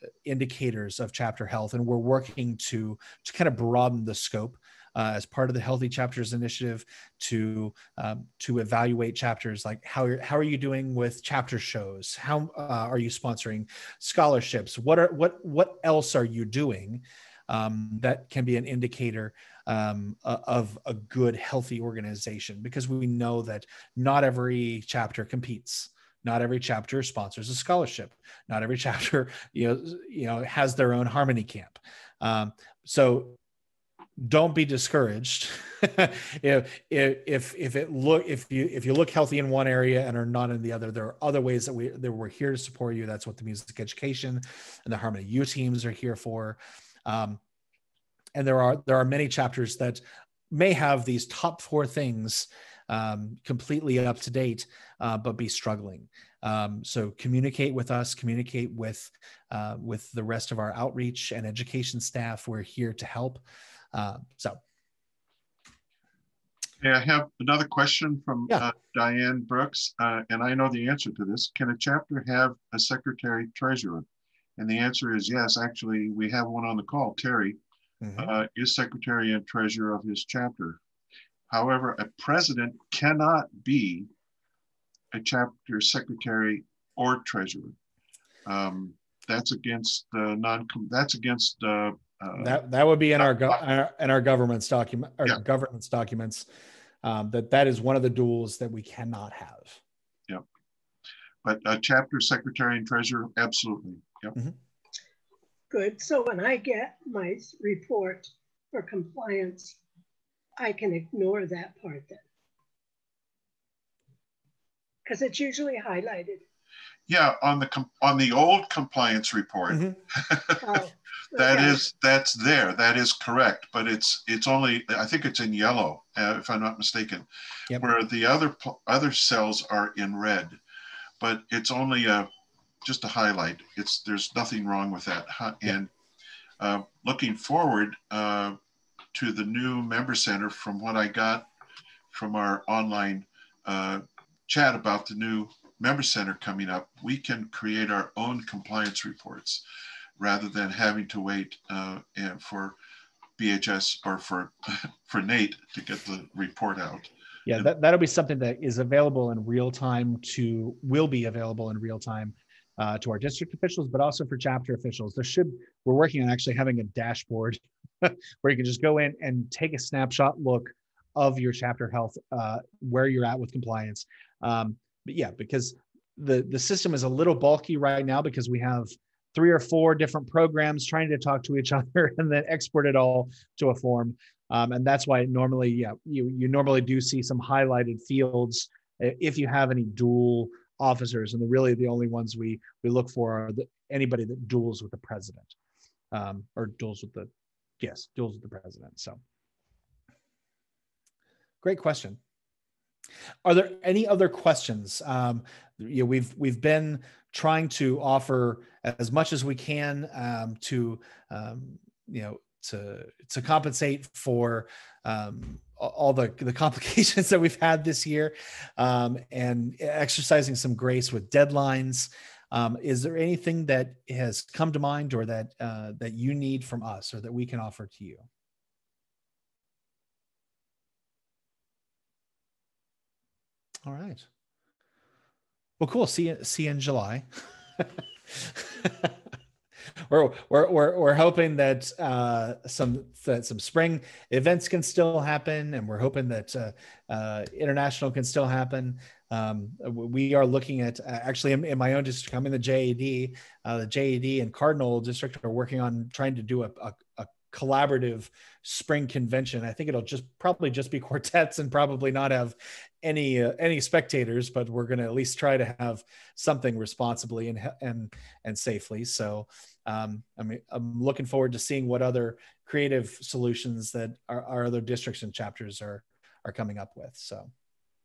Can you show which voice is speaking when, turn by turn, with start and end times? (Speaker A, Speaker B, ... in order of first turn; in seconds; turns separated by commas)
Speaker A: 0.3-33.4, Speaker A: 34.2-47.4, Speaker A: 48.4-63.4, Speaker A: 63.9-64.6, Speaker B: 66.8-74.1, Speaker B: 74.6-77.6, Speaker A: 78.0-78.3, Speaker B: 78.2-80.8, Speaker B: 81.5-84.1, Speaker B: 85.1-87.8, Speaker B: 88.5-92.6, Speaker A: 92.4-96.5, Speaker A: 97.0-99.8, Speaker B: 101.4-104.4, Speaker C: 105.7-109.8, Speaker C: 110.6-112.2, Speaker C: 115.0-116.4, Speaker B: 117.1-120.6, Speaker A: 119.7-120.0, Speaker C: 120.6-121.8, Speaker B: 121.3-130.6, Speaker B: 131.2-132.3, Speaker B: 132.8-135.9, Speaker B: 136.6-138.6, Speaker B: 139.1-141.5, Speaker B: 142.1-149.6, Speaker B: 150.2-152.8, Speaker B: 153.4-157.7, Speaker A: 157.5-195.6, Speaker A: 196.1-199.2, Speaker A: 201.6-202.2, Speaker A: 203.4-228.3, Speaker A: 233.9-234.3, Speaker A: 235.8-237.3, Speaker A: 237.8-239.1, Speaker A: 240.1-277.5